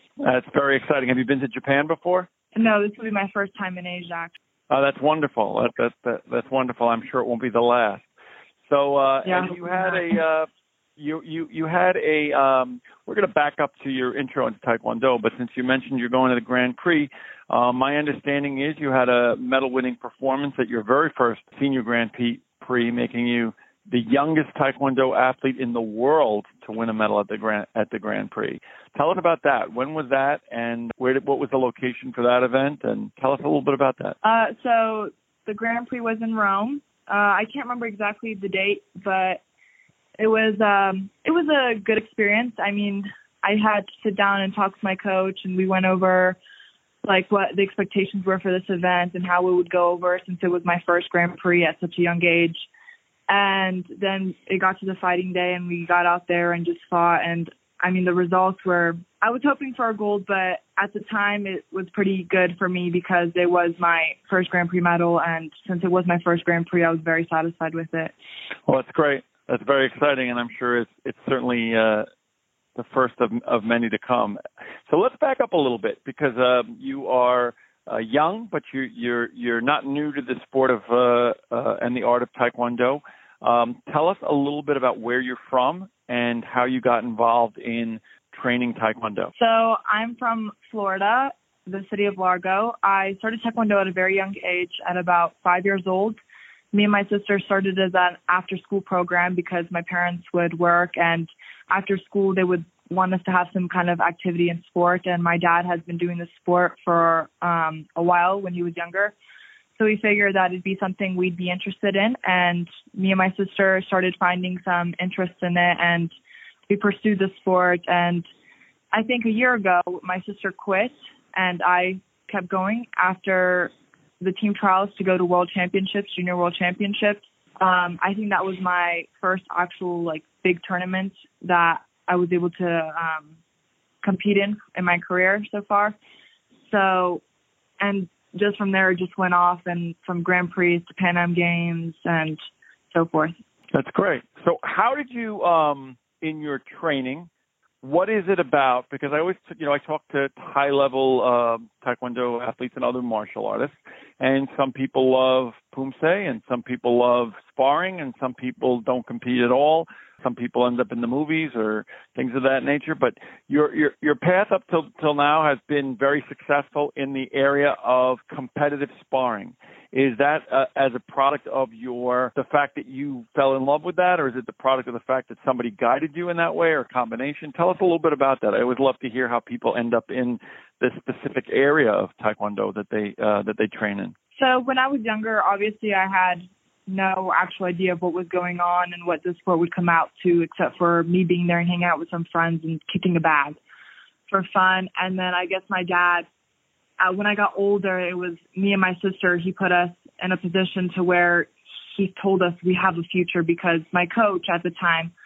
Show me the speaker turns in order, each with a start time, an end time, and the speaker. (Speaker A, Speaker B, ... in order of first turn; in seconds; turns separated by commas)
Speaker A: 0.2-2.3, Speaker B: 2.5-4.3, Speaker A: 4.7-8.1, Speaker A: 8.7-10.5, Speaker B: 9.2-10.1, Speaker A: 11.0-34.2, Speaker B: 34.2-39.4, Speaker B: 40.2-46.4, Speaker B: 47.0-52.7, Speaker B: 53.3-68.1, Speaker A: 68.7-72.1, Speaker A: 72.8-89.3, Speaker B: 89.4-96.2, Speaker B: 96.7-109.2, Speaker B: 109.8-116.1, Speaker B: 116.7-118.2, Speaker B: 118.9-133.3, Speaker B: 134.0-135.9, Speaker B: 136.7-137.2, Speaker B: 137.8-142.4, Speaker B: 142.9-143.3, Speaker A: 143.7-147.3, Speaker A: 147.8-184.1, Speaker B: 184.4-193.6, Speaker B: 194.3-196.3, Speaker B: 197.0-205.1